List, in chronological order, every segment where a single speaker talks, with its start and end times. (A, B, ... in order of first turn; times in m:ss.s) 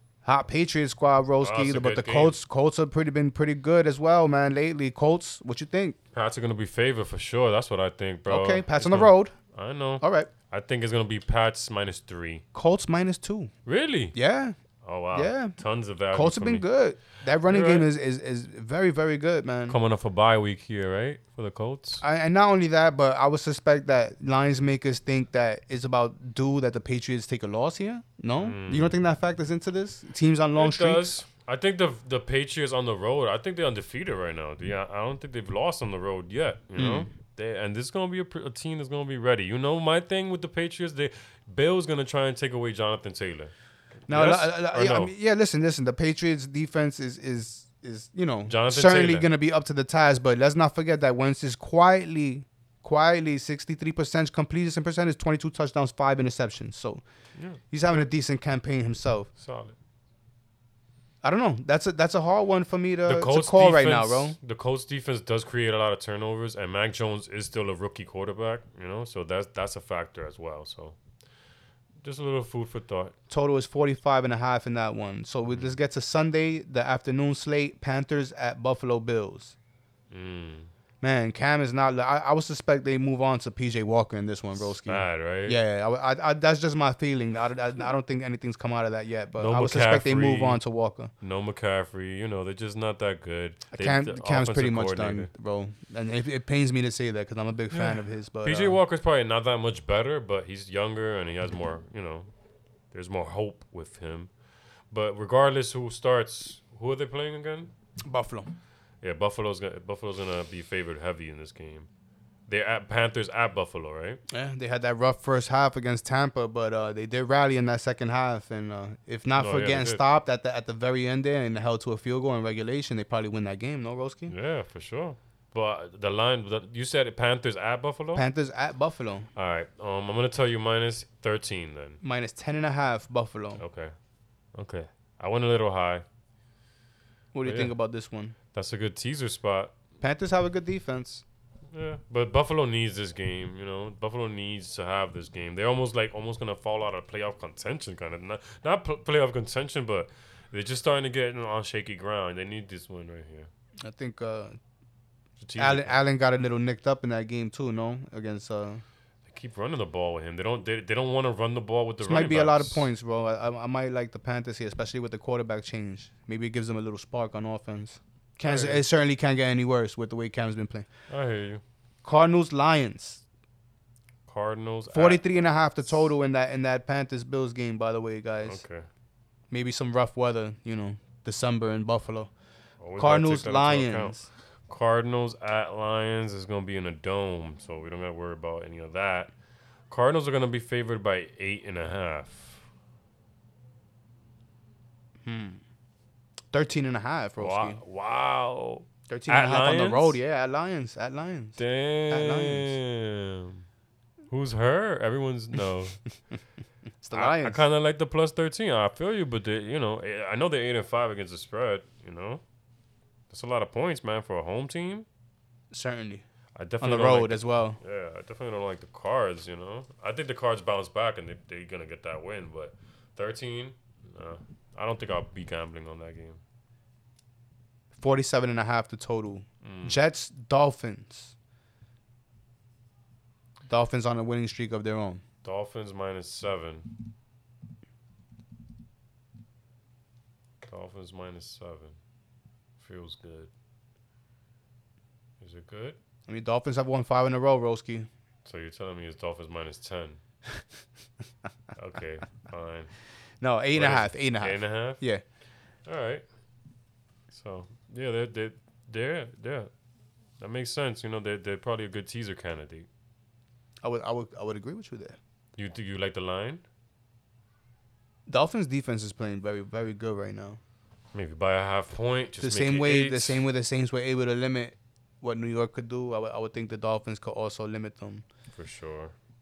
0:00.2-0:06.0 A
0:01.4-0:02.4 B
0:06.1-0:12.4 B
0:08.3-0:09.3 A
0:10.0-0:10.3 A
0:12.5-0:13.5 A
0:13.7-0:14.2 B
0:14.1-0:14.6 A
0:14.8-0:16.6 B
0:15.1-0:15.6 A
0:16.1-0:19.8 A
0:17.4-0:17.9 B
0:19.7-0:22.0 B
0:22.0-0:31.2 A
0:28.4-0:29.0 B
0:30.6-0:43.5 B
0:36.8-0:37.1 A
0:44.1-0:45.1 B
0:44.1-0:57.0 A
0:48.5-0:49.3 B
0:57.4-0:58.0 B
0:57.7-0:59.3 A
0:59.4-0:59.8 B
1:01.2-1:04.4 A
1:03.1-1:11.0 B
1:12.0-1:13.2 B
1:13.3-1:19.6 A
1:15.5-1:15.8 B
1:20.1-1:20.7 B
1:21.0-1:31.1 A
1:24.6-1:25.6 B
1:29.4-1:30.6 B
1:31.2-1:35.3 B
1:33.7-1:38.8 A
1:37.7-1:42.3 B
1:42.9-1:44.3 B
1:44.9-1:47.7 B
1:48.0-1:48.5 A
1:49.0-1:51.9 B
1:52.5-1:54.2 B
1:54.3-2:04.3 A
1:59.4-2:00.0 B
2:04.3-2:08.3 B
2:08.2-2:09.3 A
2:09.4-2:12.0 B
2:12.0-2:13.6 A
2:13.6-2:13.9 B
2:14.5-2:16.0 B
2:17.3-2:18.4 A
2:17.4-2:17.7 B
2:18.5-2:19.7 B
2:20.0-2:21.2 A
2:21.7-2:33.5 B
2:33.8-2:34.6 A
2:35.4-2:36.0 B
2:35.6-2:38.8 A
2:39.3-2:42.9 B
2:42.0-2:50.9 A
2:48.4-2:48.8 B
2:51.1-2:51.6 B
2:52.0-2:53.2 A
2:54.3-2:55.5 B
2:54.9-2:58.6 A
2:58.4-2:58.9 B
2:59.5-3:02.3 A
3:02.8-3:09.3 B
3:03.0-3:04.3 A
3:09.9-3:12.6 B
3:15.2-3:15.6 A
3:16.5-3:17.8 A
3:17.4-3:20.2 B
3:19.1-3:22.8 A
3:21.6-3:23.7 B
3:24.3-3:26.0 B
3:27.0-3:27.6 A
3:27.1-3:32.4 B
3:33.3-3:35.1 B
3:35.7-3:36.2 A
3:36.6-3:46.4 B
3:36.8-3:37.8 A
3:48.0-3:51.3 A
3:49.6-3:50.0 B
3:53.7-3:55.2 A
3:55.4-3:56.9 B
4:00.6-4:02.0 B
4:02.8-4:03.5 B
4:05.4-4:06.0 B
4:06.3-4:08.1 A
4:08.4-4:10.2 B
4:11.8-4:13.0 B
4:13.4-4:15.2 A
4:13.8-4:15.0 B
4:15.8-4:16.2 B
4:17.3-4:19.7 B
4:20.4-4:22.9 B
4:23.8-4:25.2 A
4:25.6-4:26.6 B
4:28.3-4:30.6 A
4:31.1-4:33.5 B
4:32.4-4:38.2 A
4:38.5-4:39.2 B